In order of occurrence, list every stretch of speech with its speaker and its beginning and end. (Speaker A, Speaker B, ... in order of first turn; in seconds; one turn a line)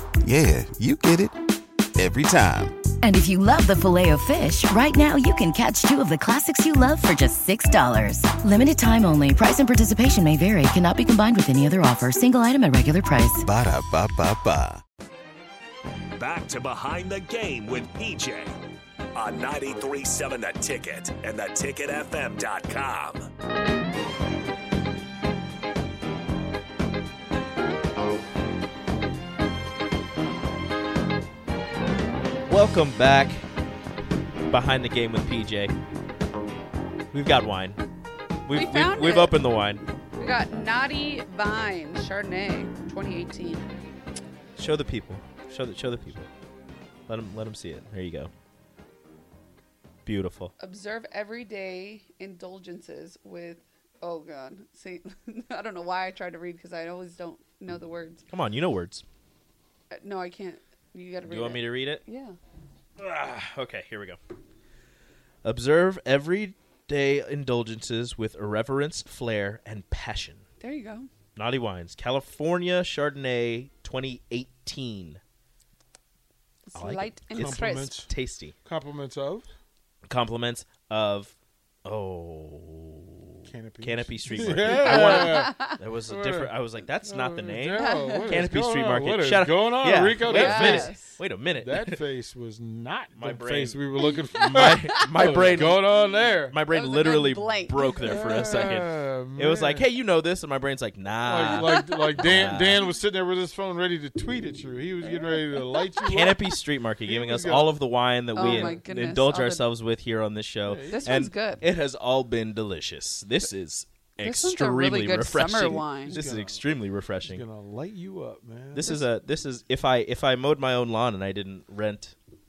Speaker A: 0.2-1.3
Speaker A: 1.9-2.8
Speaker B: 3.0-13.4
Speaker A: 13.4-14.8
Speaker C: 16.2-18.6
Speaker C: 19.1-23.2
Speaker D: 32.5-33.4
Speaker D: 34.5-35.8
Speaker D: 37.1-37.8
Speaker D: 38.5-39.8
Speaker E: 38.5-39.4
Speaker E: 40.2-43.7
Speaker D: 44.5-46.3
Speaker D: 47.1-48.3
Speaker D: 50.0-50.5
Speaker E: 50.6-58.2
Speaker D: 58.3-59.0
Speaker E: 59.9-62.4
Speaker D: 61.2-62.0
Speaker D: 63.0-64.2
Speaker D: 65.4-70.4
Speaker E: 70.6-71.1
Speaker D: 71.3-75.2
Speaker E: 76.7-78.0
Speaker D: 76.7-78.5
Speaker F: 77.3-78.1
Speaker F: 78.6-79.5
Speaker D: 80.1-81.3
Speaker D: 81.8-92.0
Speaker F: 83.4-91.0
Speaker E: 84.5-85.7
Speaker E: 87.8-88.3
Speaker E: 90.2-91.2
Speaker F: 91.5-96.5
Speaker D: 93.2-95.9
Speaker E: 94.0-96.1
Speaker D: 96.5-102.8
Speaker E: 96.7-98.8
Speaker F: 98.1-99.8
Speaker F: 101.2-106.5
Speaker E: 101.4-102.6
Speaker E: 105.0-106.2
Speaker D: 106.0-117.4
Speaker F: 107.0-107.8
Speaker E: 108.3-109.7
Speaker F: 108.3-108.8
Speaker F: 110.6-111.1
Speaker E: 110.9-111.6
Speaker E: 114.2-116.2
Speaker F: 116.1-116.6
Speaker F: 117.2-119.0
Speaker D: 118.7-122.1